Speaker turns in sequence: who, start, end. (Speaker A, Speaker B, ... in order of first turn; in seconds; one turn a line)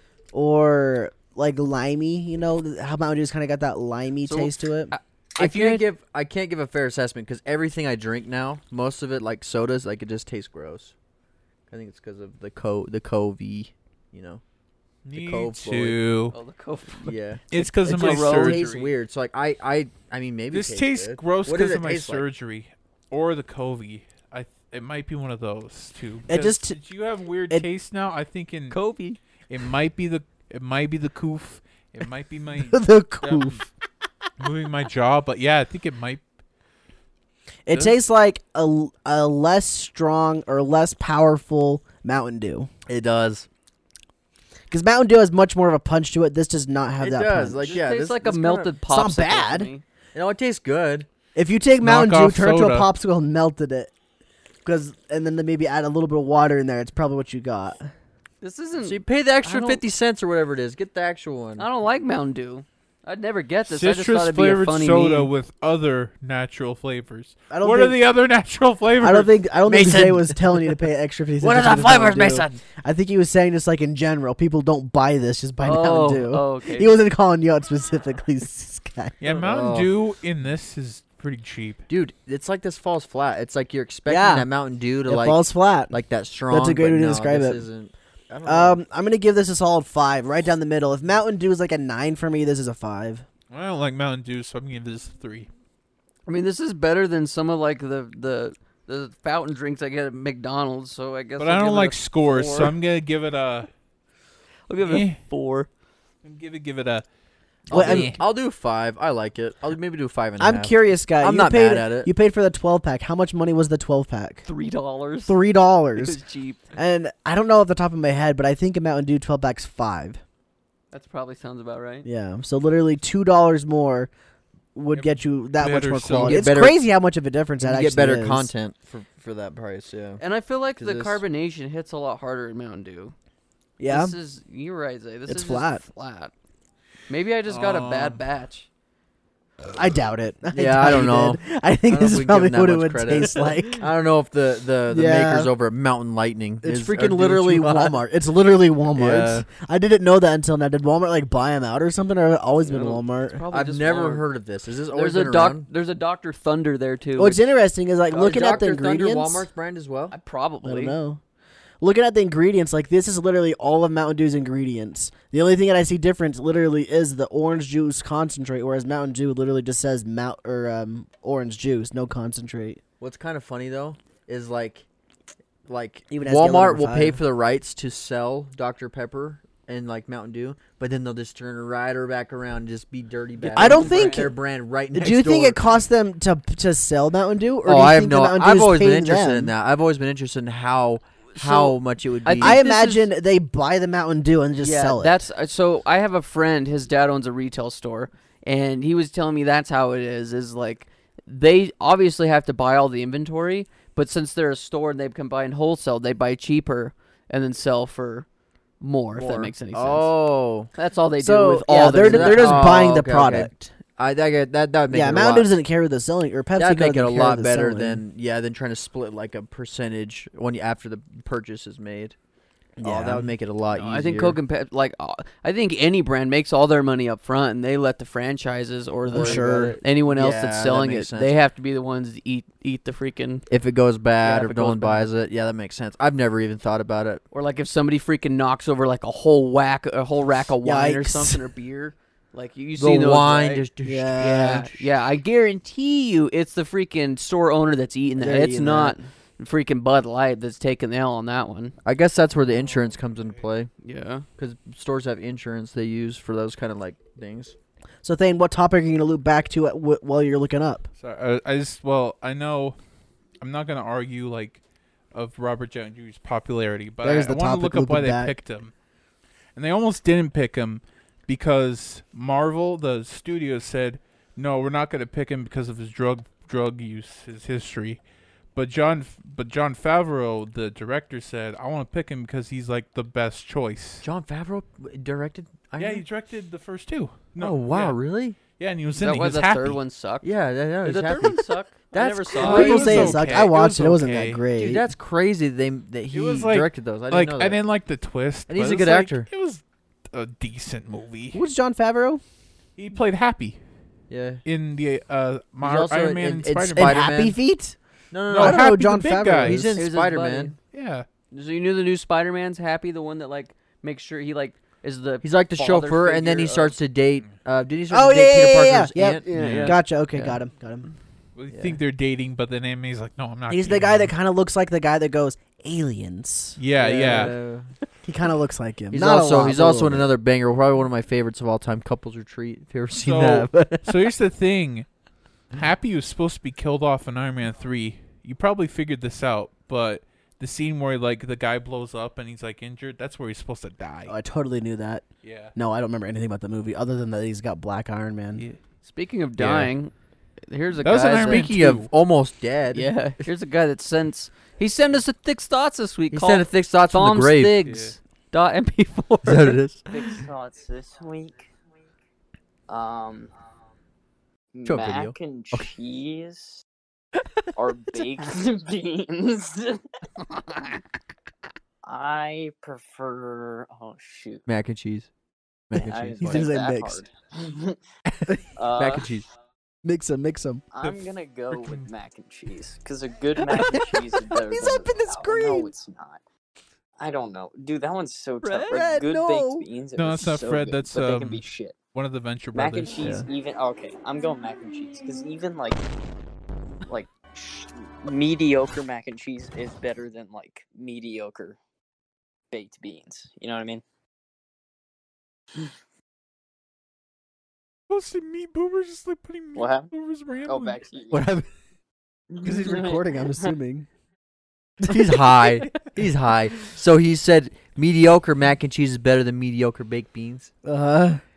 Speaker A: 0.3-4.9
Speaker B: 4.2-5.8
Speaker C: 5.4-10.9
Speaker C: 11.7-14.4
Speaker D: 15.0-16.3
Speaker C: 15.1-16.0
Speaker B: 16.3-18.9
Speaker C: 17.0-22.2
Speaker D: 17.5-18.7
Speaker D: 20.5-28.8
Speaker A: 26.3-26.8
Speaker B: 28.7-29.2
Speaker D: 29.5-33.7
Speaker A: 32.7-33.6
Speaker D: 34.4-36.2
Speaker A: 37.7-42.7
Speaker C: 42.9-43.5
Speaker A: 44.7-47.8
Speaker C: 47.0-48.7
Speaker B: 47.6-49.8
Speaker A: 48.9-49.7
Speaker C: 50.1-51.1
Speaker A: 51.3-53.9
Speaker D: 51.8-52.9
Speaker A: 54.6-57.9
Speaker B: 58.4-59.8
Speaker C: 58.8-61.6
Speaker B: 61.6-65.3
Speaker D: 63.7-69.3
Speaker A: 67.5-68.0
Speaker A: 69.0-79.1
Speaker C: 69.7-70.1
Speaker B: 69.7-70.1
Speaker B: 71.4-72.5
Speaker C: 71.8-72.5
Speaker B: 75.6-76.9
Speaker D: 79.2-81.8
Speaker C: 79.2-79.9
Speaker C: 81.9-88.8
Speaker A: 84.1-84.5
Speaker A: 85.0-85.9
Speaker A: 86.5-87.6
Speaker A: 88.5-93.2
Speaker D: 93.5-95.5
Speaker B: 96.2-102.7
Speaker D: 101.4-103.7
Speaker B: 104.7-105.7
Speaker D: 104.8-105.2
Speaker D: 106.2-107.0
Speaker C: 107.7-112.1
Speaker A: 107.7-108.2
Speaker D: 107.7-108.2
Speaker A: 110.4-114.5
Speaker B: 114.5-115.3
Speaker A: 115.3-116.2
Speaker B: 116.0-116.6
Speaker A: 116.7-120.2
Speaker B: 120.9-122.1
Speaker A: 122.0-124.1
Speaker A: 124.7-128.5
Speaker D: 124.9-126.5
Speaker C: 126.2-126.8
Speaker C: 127.6-130.2
Speaker B: 130.2-133.1
Speaker C: 130.8-131.2
Speaker A: 133.8-134.1
Speaker B: 133.9-136.3
Speaker A: 135.3-135.8
Speaker B: 137.1-138.7
Speaker D: 137.5-138.2
Speaker A: 139.7-143.8
Speaker C: 140.5-148.0
Speaker A: 144.9-145.5
Speaker A: 146.6-153.4
Speaker C: 148.9-149.4
Speaker B: 152.6-154.3
Speaker C: 153.5-155.7
Speaker B: 154.9-157.5
Speaker A: 157.2-159.5
Speaker C: 158.1-160.1
Speaker B: 160.1-161.0
Speaker A: 160.6-161.2
Speaker A: 161.8-172.8
Speaker C: 173.0-174.8
Speaker C: 175.7-185.6
Speaker A: 176.1-177.2
Speaker B: 183.4-184.3
Speaker A: 183.5-184.3
Speaker A: 184.9-189.5
Speaker C: 187.6-192.6
Speaker B: 191.3-193.1
Speaker A: 192.4-195.2
Speaker B: 194.6-208.2
Speaker B: 208.8-210.1
Speaker C: 209.2-210.7
Speaker B: 210.7-212.9
Speaker A: 211.2-213.7
Speaker C: 211.7-215.5
Speaker A: 214.9-218.0
Speaker C: 216.6-222.2
Speaker A: 222.8-223.3
Speaker C: 222.8-224.4
Speaker B: 223.7-233.4
Speaker C: 229.1-231.3
Speaker A: 229.1-229.8
Speaker C: 233.5-237.2
Speaker B: 234.2-235.1
Speaker B: 237.3-251.7
Speaker A: 240.6-241.4
Speaker C: 242.8-244.6
Speaker A: 243.8-244.7
Speaker A: 248.2-249.0
Speaker C: 251.8-253.7
Speaker D: 252.6-253.4
Speaker B: 253.8-254.2
Speaker C: 254.4-257.5
Speaker A: 258.0-260.9
Speaker D: 261.0-262.8
Speaker D: 263.4-264.6
Speaker D: 265.1-268.7
Speaker A: 267.0-268.3
Speaker D: 269.5-278.0
Speaker D: 278.5-284.0
Speaker C: 284.0-286.0
Speaker D: 285.8-288.0
Speaker C: 287.4-288.4
Speaker D: 288.6-289.8
Speaker B: 288.9-293.2
Speaker C: 290.2-293.1
Speaker D: 292.4-294.4
Speaker A: 292.4-294.9
Speaker C: 294.5-297.6
Speaker D: 296.1-301.4
Speaker C: 298.5-299.3
Speaker A: 301.3-302.2
Speaker D: 302.8-303.6
Speaker C: 304.1-304.4
Speaker D: 304.4-307.0
Speaker C: 305.6-307.4
Speaker A: 306.8-307.8
Speaker C: 308.1-308.6
Speaker D: 308.3-309.7
Speaker A: 308.4-309.8
Speaker C: 309.4-310.5
Speaker B: 309.8-310.6
Speaker D: 310.7-311.1
Speaker B: 311.3-316.7
Speaker C: 315.2-319.3
Speaker A: 317.9-320.9
Speaker B: 319.2-320.4
Speaker D: 319.3-319.8
Speaker D: 321.4-324.1
Speaker C: 321.5-321.8
Speaker A: 323.5-327.3
Speaker D: 326.6-327.3
Speaker C: 326.8-327.7
Speaker A: 328.0-330.1
Speaker C: 328.9-333.5
Speaker D: 332.9-334.9
Speaker A: 333.5-333.8
Speaker D: 335.5-344.1
Speaker A: 344.1-348.4
Speaker D: 345.2-345.5
Speaker B: 348.8-349.9
Speaker C: 349.4-349.6
Speaker B: 350.5-351.5
Speaker D: 350.8-351.9
Speaker C: 351.1-352.9
Speaker B: 352.7-359.6
Speaker C: 356.1-357.6
Speaker D: 357.6-357.9
Speaker C: 359.2-359.8
Speaker E: 359.9-361.5
Speaker E: 362.7-363.3
Speaker E: 364.5-366.6
Speaker C: 364.6-365.7
Speaker E: 367.5-369.8
Speaker E: 371.8-374.4
Speaker C: 374.5-375.1
Speaker C: 375.7-376.5
Speaker E: 375.7-377.8
Speaker A: 376.2-377.0
Speaker E: 378.6-379.1
Speaker C: 378.8-379.3
Speaker A: 379.8-380.6
Speaker E: 380.7-386.2
Speaker D: 381.5-381.9
Speaker A: 383.5-385.7
Speaker E: 387.0-391.8
Speaker B: 388.4-388.8
Speaker A: 388.7-389.7
Speaker D: 389.9-393.2
Speaker E: 392.5-395.8
Speaker E: 396.9-401.6
Speaker E: 402.5-403.8
Speaker D: 407.9-410.8
Speaker E: 409.5-409.9
Speaker E: 410.4-411.4
Speaker A: 411.1-411.4
Speaker E: 412.3-413.0
Speaker A: 412.4-413.9
Speaker C: 414.8-420.5
Speaker A: 420.6-421.2